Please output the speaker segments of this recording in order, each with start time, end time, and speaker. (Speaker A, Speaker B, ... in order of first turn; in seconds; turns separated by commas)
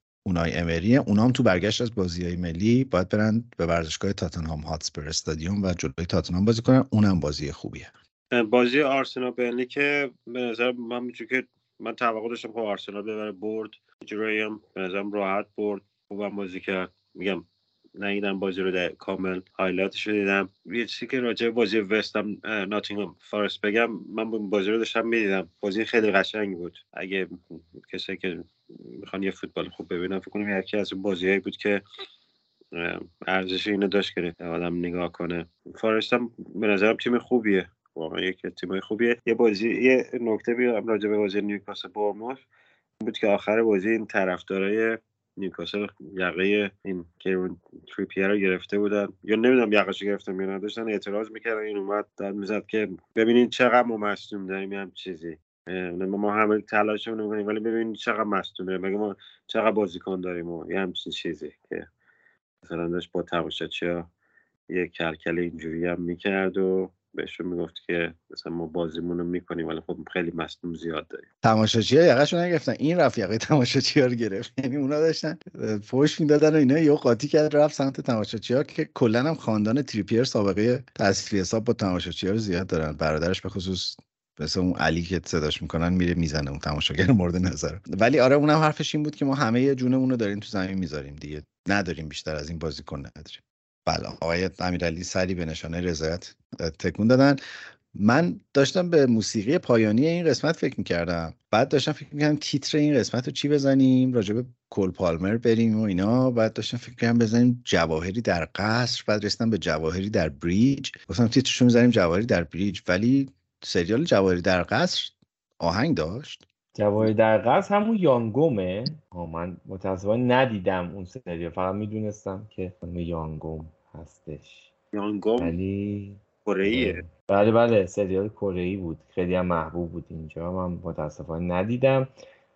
Speaker A: 0.2-7.9, Speaker B: 8.3-17.4, Speaker B: 18.0-31.8, Speaker B: 32.7-42.4, Speaker B: 43.0-61.9, Speaker B: 62.6-64.1, Speaker B: 64.7-71.2, Speaker A: 71.4-97.4, Speaker A: 97.9-116.4, Speaker C: 116.7-124.7, Speaker B: 124.9-125.5, Speaker C: 125.4-132.1, Speaker B: 126.4-127.0